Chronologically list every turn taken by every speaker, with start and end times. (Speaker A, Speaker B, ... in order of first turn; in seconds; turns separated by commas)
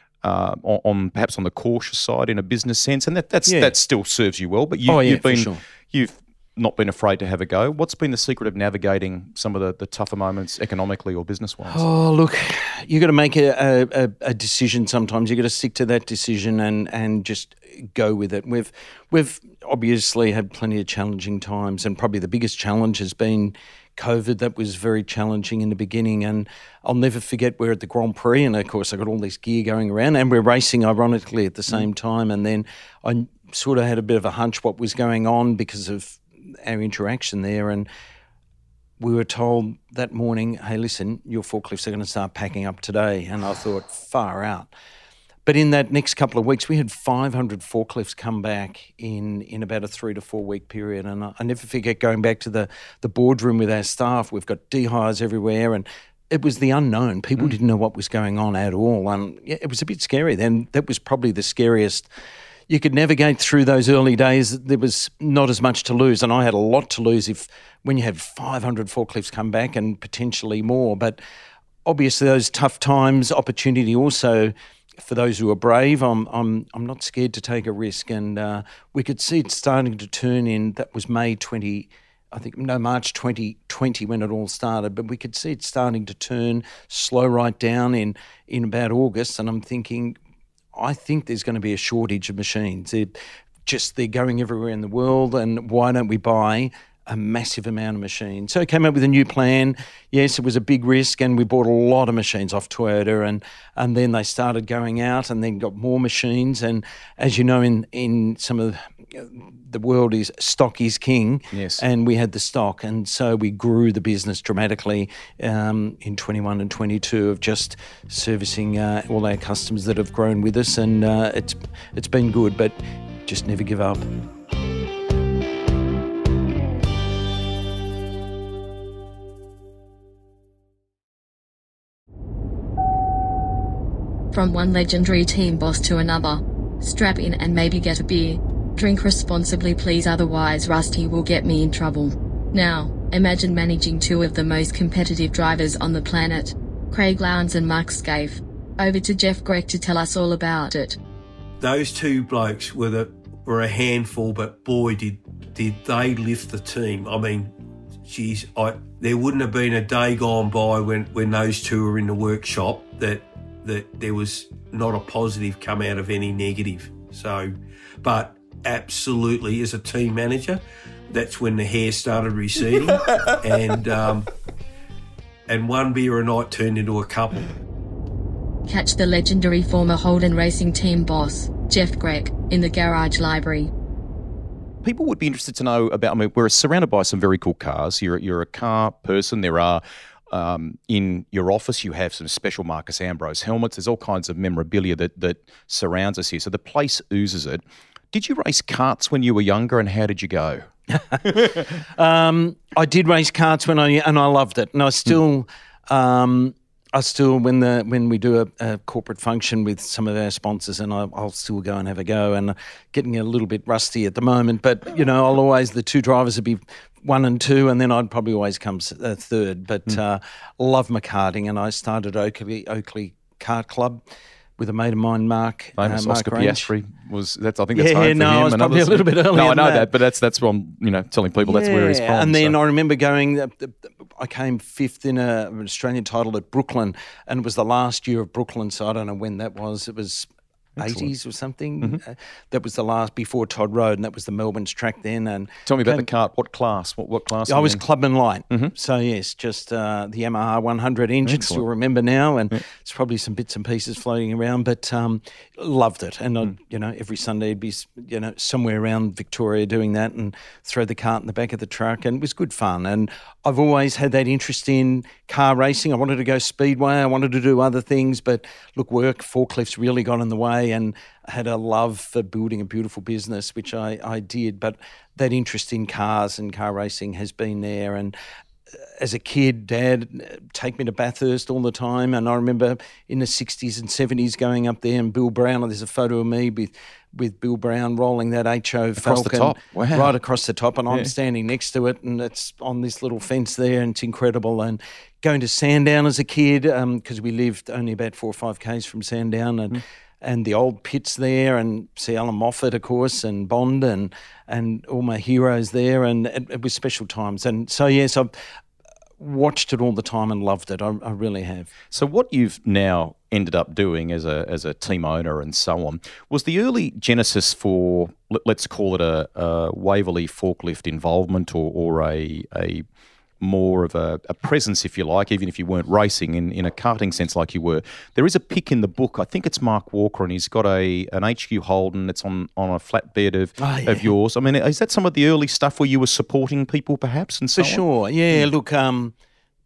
Speaker A: 0.2-11.8, Speaker B: 3.5-3.7, Speaker B: 4.9-5.6, Speaker B: 11.7-37.9, Speaker B: 39.0-44.7, Speaker B: 45.5-62.1, Speaker B: 62.7-71.2, Speaker B: 71.8-90.2, Speaker B: 90.7-124.1, Speaker A: 111.5-111.8, Speaker C: 134.3-151.0, Speaker D: 151.6-174.3, Speaker D: 175.5-177.5, Speaker C: 178.7-183.7, Speaker A: 184.8-200.7, Speaker B: 200.9-224.0, Speaker B: 224.6-226.7, Speaker A: 225.8-232.5, Speaker B: 227.7-229.9, Speaker B: 231.4-246.1, Speaker A: 240.8-241.1, Speaker A: 245.7-247.8, Speaker B: 247.5-278.1, Speaker A: 251.2-251.6, Speaker B: 279.0-308.3, Speaker A: 289.0-290.1, Speaker B: 309.2-311.7, Speaker A: 311.9-322.8, Speaker A: 323.4-337.8, Speaker B: 333.6-334.1, Speaker B: 337.6-339.1